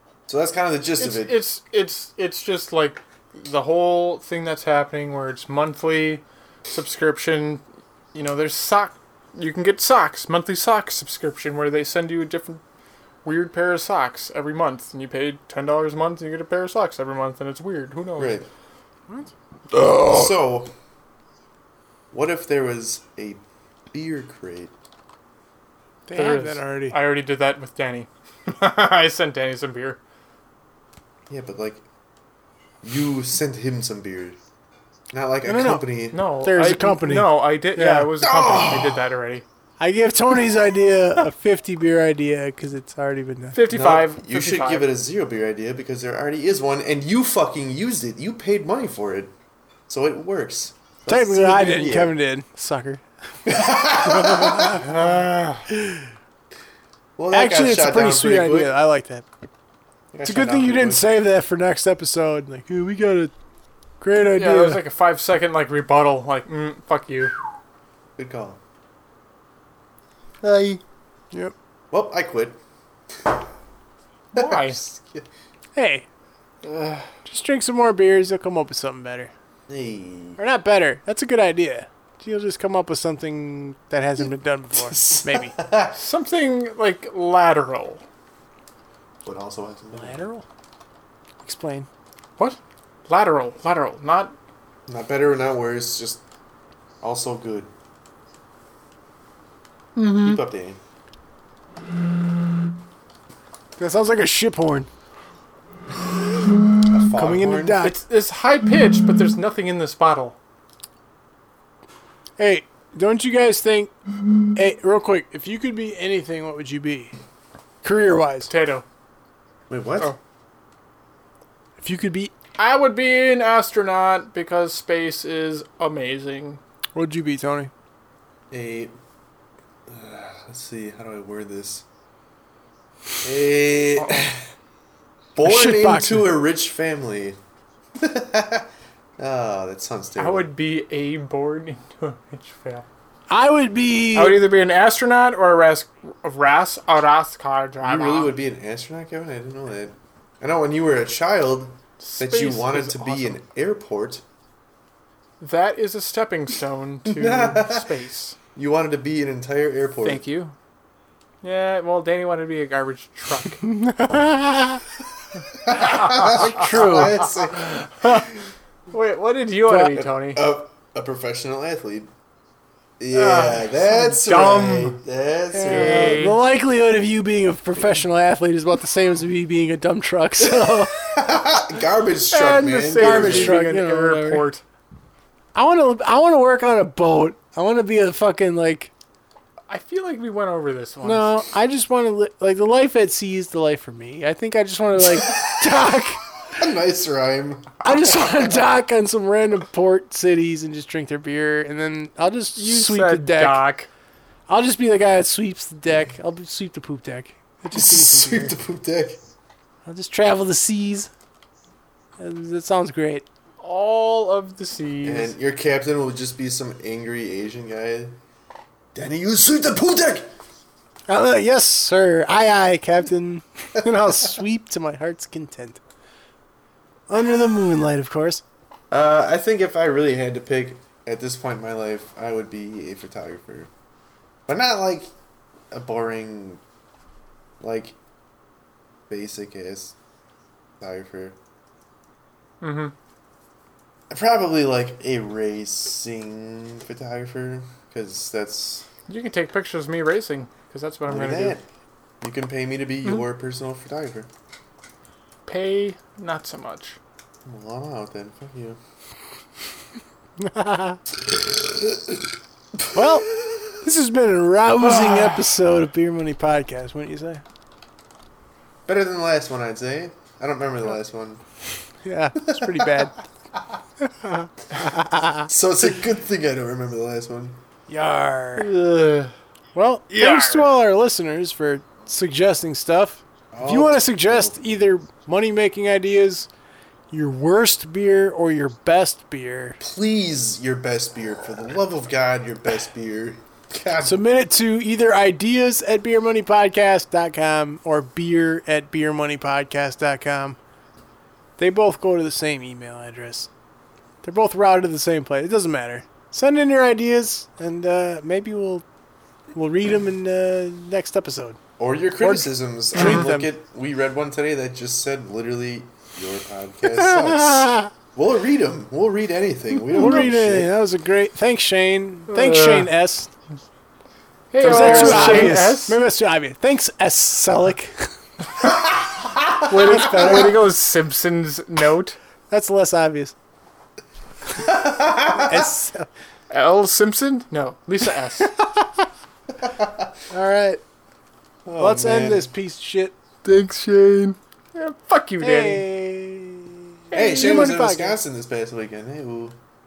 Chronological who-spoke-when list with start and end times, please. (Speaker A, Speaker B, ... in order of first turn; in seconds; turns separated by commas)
Speaker A: 0.3-1.4, Speaker B: 1.0-7.6, Speaker B: 8.1-12.6, Speaker B: 13.2-18.4, Speaker A: 18.2-18.5, Speaker A: 19.7-20.7, Speaker A: 22.1-23.4, Speaker A: 23.9-24.7, Speaker C: 26.1-26.9, Speaker B: 26.1-30.0, Speaker A: 31.3-31.8, Speaker A: 32.8-34.4, Speaker A: 35.1-36.3, Speaker C: 35.5-35.9, Speaker B: 36.1-39.5, Speaker C: 36.4-38.1, Speaker A: 38.2-39.1, Speaker C: 39.8-43.6, Speaker B: 43.5-44.9, Speaker A: 43.7-49.3, Speaker A: 49.9-52.1, Speaker C: 51.1-53.0, Speaker A: 53.4-54.9, Speaker C: 54.0-55.0, Speaker B: 54.8-55.6, Speaker C: 55.7-56.0, Speaker A: 57.2-58.7, Speaker C: 57.3-59.2, Speaker A: 60.1-61.1, Speaker C: 60.2-63.3, Speaker C: 64.0-64.8, Speaker B: 64.2-67.3, Speaker A: 68.2-68.6, Speaker A: 70.4-70.8, Speaker A: 71.9-72.6, Speaker B: 74.3-74.8, Speaker A: 74.3-75.3, Speaker C: 75.7-76.0, Speaker A: 76.6-77.0, Speaker C: 77.2-79.3, Speaker A: 79.7-80.4, Speaker C: 80.4-85.5, Speaker A: 84.8-86.0, Speaker B: 85.9-88.0, Speaker A: 89.2-90.2, Speaker C: 89.9-90.4, Speaker C: 91.4-91.9, Speaker B: 92.4-94.3, Speaker A: 94.9-96.2, Speaker A: 97.0-97.7, Speaker B: 100.0-100.4, Speaker A: 100.2-100.8, Speaker C: 103.8-104.9, Speaker A: 106.8-107.8, Speaker C: 107.1-108.0, Speaker B: 107.8-110.3, Speaker C: 112.4-113.9, Speaker C: 114.5-117.1, Speaker C: 117.8-118.5, Speaker B: 118.5-118.8, Speaker A: 119.7-120.1, Speaker C: 121.8-122.3, Speaker B: 122.6-126.6, Speaker C: 126.9-127.7, Speaker A: 128.5-128.9, Speaker A: 129.9-131.8, Speaker A: 133.2-134.4, Speaker B: 134.0-134.3, Speaker A: 135.3-137.4, Speaker C: 135.4-136.3, Speaker A: 137.9-140.5, Speaker B: 140.2-142.8, Speaker C: 143.3-144.4, Speaker B: 144.1-148.3, Speaker A: 147.8-154.2, Speaker B: 152.0-153.4, Speaker B: 155.4-158.4, Speaker A: 157.0-157.9, Speaker A: 158.5-160.2, Speaker B: 160.0-160.5, Speaker B: 161.4-163.6, Speaker C: 163.7-164.8, Speaker A: 165.6-168.3, Speaker B: 165.7-168.3, Speaker C: 166.2-167.2, Speaker B: 168.9-170.4, Speaker C: 169.7-169.9, Speaker A: 169.9-172.1, Speaker A: 173.0-176.2, Speaker B: 173.1-175.0, Speaker C: 175.5-180.9, Speaker B: 175.6-176.4, Speaker A: 180.4-183.6, Speaker B: 182.3-184.6, Speaker C: 183.0-184.4, Speaker C: 185.5-188.9, Speaker B: 189.7-191.4, Speaker C: 191.0-196.2, Speaker A: 195.1-195.9, Speaker A: 196.5-198.6, Speaker C: 197.8-203.6, Speaker B: 202.6-203.9, Speaker C: 204.5-208.6, Speaker A: 207.7-209.2, Speaker C: 209.8-211.1, Speaker C: 212.2-213.2, Speaker B: 213.6-215.3, Speaker A: 215.0-218.2, Speaker A: 218.9-220.3, Speaker C: 221.1-225.8, Speaker C: 227.1-228.4, Speaker A: 228.9-233.7, Speaker A: 234.5-235.1, Speaker A: 235.7-236.6, Speaker A: 237.6-237.9, Speaker A: 239.1-239.9, Speaker A: 240.8-241.3, Speaker B: 242.6-242.9, Speaker A: 244.1-248.9, Speaker B: 249.1-251.6, Speaker A: 251.1-251.6, Speaker A: 252.2-254.3, Speaker B: 255.4-257.0, Speaker A: 257.4-258.8, Speaker C: 260.4-261.0, Speaker C: 262.9-267.4, Speaker A: 268.9-271.4, Speaker C: 272.0-273.2, Speaker A: 272.4-272.9, Speaker C: 274.0-275.5, Speaker A: 275.5-277.6, Speaker C: 277.9-278.7, Speaker B: 278.6-279.3, Speaker C: 279.7-286.5, Speaker B: 280.1-280.7, Speaker A: 283.5-284.7, Speaker C: 287.1-289.8, Speaker A: 289.8-294.2, Speaker C: 294.0-300.6, Speaker C: 301.6-303.5, Speaker C: 304.2-308.8, Speaker C: 309.5-311.6, Speaker A: 311.8-320.7, Speaker C: 312.2-313.5, Speaker B: 312.9-313.3, Speaker C: 316.9-317.9, Speaker C: 319.9-323.3, Speaker B: 322.3-322.9, Speaker B: 324.5-326.0, Speaker C: 324.6-328.1, Speaker A: 324.6-325.6, Speaker B: 329.6-332.2, Speaker C: 329.7-330.5, Speaker C: 332.5-333.3, Speaker A: 334.6-335.7, Speaker C: 335.3-336.1, Speaker B: 336.5-338.5, Speaker A: 339.6-340.1, Speaker C: 340.3-340.8, Speaker A: 341.6-342.5, Speaker C: 341.8-343.1, Speaker B: 343.4-345.8, Speaker C: 345.4-348.2, Speaker B: 347.1-347.6, Speaker A: 347.1-349.6